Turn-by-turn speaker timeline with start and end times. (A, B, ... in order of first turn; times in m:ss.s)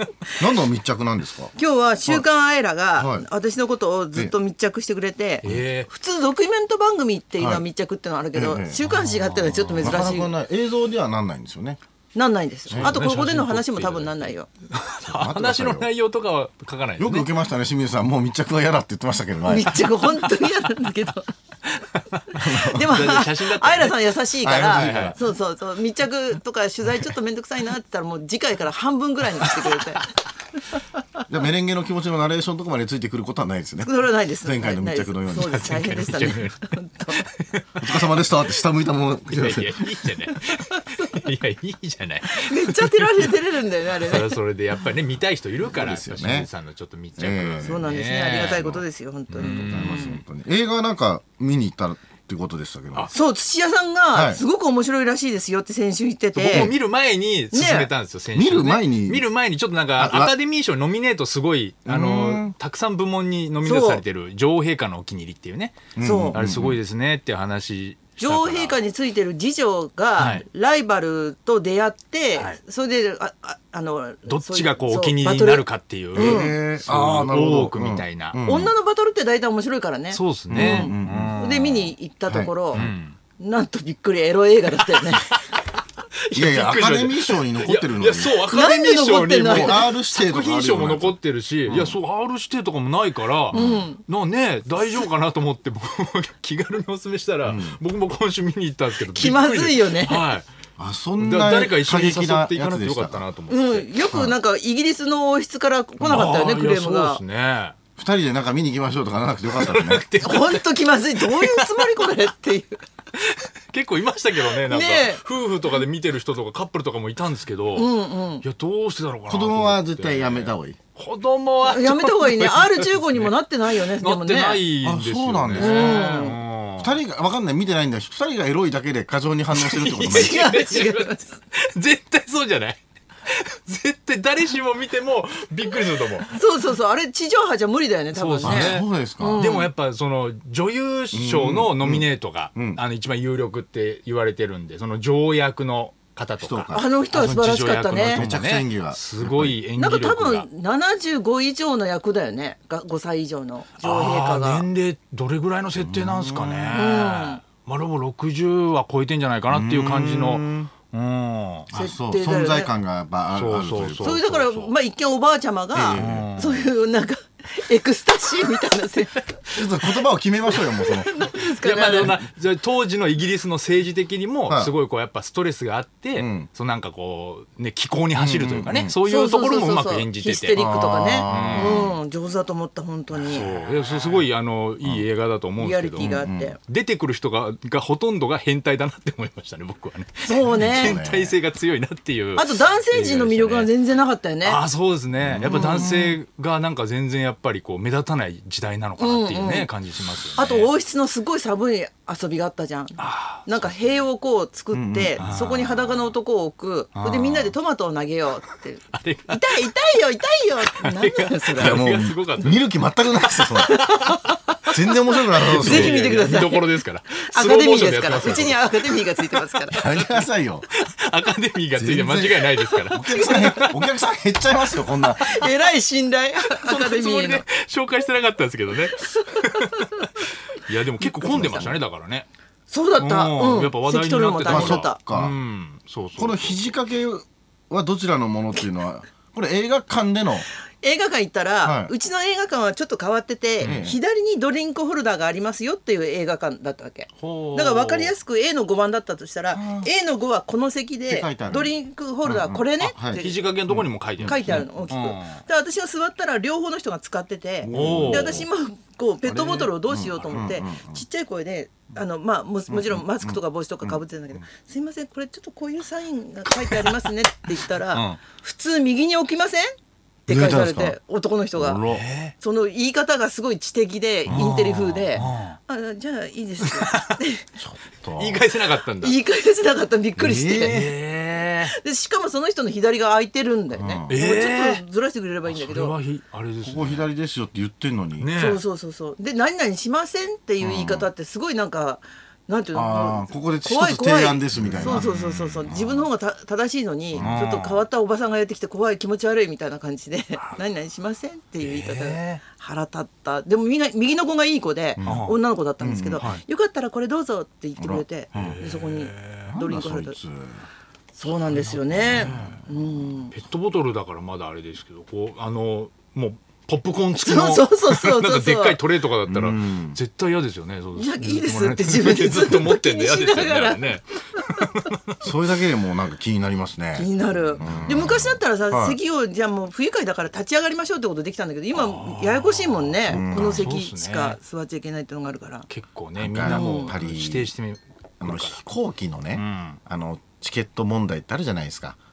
0:00.4-0:01.5 A
0:01.6-0:10.3 B
0:03.0-0:03.3 A
0:05.4-0:05.9 C
0:07.4-0:07.6 A
0:08.3-0:08.8 A
0:09.6-0:09.9 C
0:09.8-0:11.8 A
0:12.1-0:14.5 B
0:12.7-0:13.0 A
0:12.7-0:17.3 C
0:15.0-0:15.9 A
0:17.0-0:19.8 A
0:19.4-0:21.3 B
0:21.9-0:25.2 C
0:22.3-0:23.1 A
0:22.6-0:30.1 B
0:24.4-0:25.2 A
0:29.4-0:29.8 C
0:31.3-0:35.6 A
0:33.8-0:37.3 B
0:35.4-0:38.3 C
0:37.8-0:39.8 A
0:39.3-0:43.4 C
0:42.2-0:44.4 B
0:44.0-0:50.2 C
0:45.6-0:46.5 A
0:47.2-0:53.1 A
0:47.6-0:50.2 B
0:53.1-0:56.7 B
0:54.1-0:54.4 A
0:56.4-1:08.8 C
0:57.5-0:57.9 B
0:58.3-0:59.2 A
1:00.0-1:00.3 A
1:01.8-1:02.5 A
1:03.6-1:04.0 B
1:05.9-1:06.8 A
1:06.0-1:06.4 B
1:08.2-1:16.5 B
1:10.2-1:10.4 C
1:14.3-1:18.4 C
1:16.1-1:18.7 A
1:18.4-1:22.8 B
1:20.1-1:21.7 C
1:20.5-1:22.9 A
1:22.7-1:23.2 C
1:23.4-1:25.3 B
1:25.3-1:25.6 C
1:26.3-1:40.5 C
1:26.3-1:28.4 A
1:28.5-1:29.8 B
1:29.5-1:32.0 A
1:33.5-1:33.8 A
1:33.5-1:34.0 B
1:37.4-1:37.8 A
1:39.0-1:40.2 B
1:40.8-1:43.2 A
1:41.2-1:43.9 C
1:43.5-1:47.2 B
1:46.0-1:47.7 C
1:48.0-1:50.0 A
1:49.5-1:52.1 C
1:50.2-1:52.8 B
1:53.2-2:07.0 C
1:54.5-1:55.2 B
1:57.7-1:58.4 B
1:59.3-2:00.8 A
2:01.6-2:04.6 B
2:04.8-2:10.5 A
2:05.6-2:06.4 B
2:09.5-2:16.3 C
2:10.1-2:11.4 B
2:16.2-2:19.7 B
2:18.1-2:30.5 C
2:18.4-2:19.5 A
2:21.1-2:22.8 A
2:26.4-2:26.9 A
2:26.7-2:28.2 B
2:28.1-2:29.6 A
2:29.8-2:34.6 B
2:33.8-2:41.7 C
2:35.8-2:36.8 A
2:36.7-2:37.4 B
2:39.5-2:40.7 A
2:41.7-2:44.7 A
2:41.7-2:42.7 B
2:43.3-2:44.2 C
2:44.0-2:49.2 B
2:45.7-2:46.3 A
2:45.9-2:46.6 C
2:49.5-2:51.1 A
2:50.7-3:00.6 C
2:50.8-2:52.2 B
2:54.5-2:54.7 A
2:56.2-2:56.5 A
2:58.1-2:58.9 A
2:59.0-3:03.4 B
3:00.6-3:01.9 A
3:01.2-3:01.9 C
3:03.2-3:04.2 A
3:03.3-3:06.1 C
3:05.6-3:06.6 B
3:06.0-3:06.5 A
3:06.7-3:13.7 C
3:10.2-3:11.0 B
3:10.5-3:11.3 A
3:12.4-3:14.6 B
3:14.4-3:20.7 C
3:15.2-3:16.2 A
3:15.5-3:15.9 B
3:19.0-3:19.7 B
3:20.4-3:31.9 B
3:23.0-3:23.8 C
3:24.7-3:25.7 A
3:25.2-3:25.9 C
3:26.9-3:27.5 C
3:28.9-3:29.6 C
3:30.7-3:32.7 C
3:31.6-3:33.8 A
3:33.2-3:34.1 C
3:33.6-3:34.2 B
3:34.7-3:36.0 A
3:35.4-3:43.9 C
3:35.5-3:39.8 B
3:39.7-3:40.7 A
3:41.7-3:45.4 A
3:43.1-3:43.6 B
3:44.8-3:47.4 B
3:46.5-3:52.3 C
3:49.1-3:50.0 B
3:51.0-3:51.7 B
3:52.7-3:55.0 B
3:53.0-3:56.6 C
3:54.5-3:55.4 A
3:56.2-4:00.5 A
4:00.8-4:13.5 B
4:01.6-4:01.9 A
4:03.6-4:04.0 A
4:07.2-4:08.1 C
4:09.5-4:09.9 A
4:11.1-4:11.7 A
4:12.2-4:14.9 A
4:12.8-4:15.4 C
4:14.2-4:29.7 B
4:17.6-4:18.5 A
4:17.7-4:18.4 C
4:19.2-4:21.0 A
4:22.7-4:24.0 A
4:27.9-4:28.2 C
4:30.2-4:31.8 B
4:30.3-4:31.0 A
4:31.6-4:32.0 A
4:31.8-4:32.3 C
4:32.4-4:37.4 B
4:34.3-4:34.5 A
4:34.3-4:35.6 C
4:36.6-4:37.2 C
4:37.6-4:38.4 A
4:38.2-4:39.2 C
4:39.0-4:40.8 B
4:40.2-4:40.9 A
4:40.6-4:41.7 C
4:41.6-4:45.9 B
4:43.7-4:44.2 A
4:44.1-4:44.8 C
4:45.5-4:47.1 C
4:46.6-4:48.3 A
4:48.2-4:48.6 C
4:48.4-5:10.2 B
4:50.6-4:51.1 A
4:52.7-4:55.1 A
4:54.6-4:55.7 C
4:55.6-4:56.0 A
4:57.1-4:57.4 A
4:57.1-4:57.8 C
5:01.6-5:02.4 C
5:05.0-5:06.3 A
5:05.0-5:05.4 C
5:06.2-5:06.4 C
5:07.8-5:08.6 A
5:08.3-5:09.5 C
5:09.4-5:10.6 A
5:11.1-5:13.3 B
5:11.5-5:12.6 C
5:11.9-5:12.6 A
5:13.3-5:25.3 C
5:17.2-5:18.8 B
5:19.3-5:20.0 A
5:21.0-5:24.6 B
5:25.2-5:29.0 A
5:27.0-5:35.7 B
5:27.6-5:28.2 C
5:31.7-5:34.4 C
5:33.1-5:33.7 A
5:35.7-5:38.6 C
5:36.2-5:37.5 A
5:36.4-5:36.9 B
5:38.2-5:42.0 A
5:39.3-5:39.8 C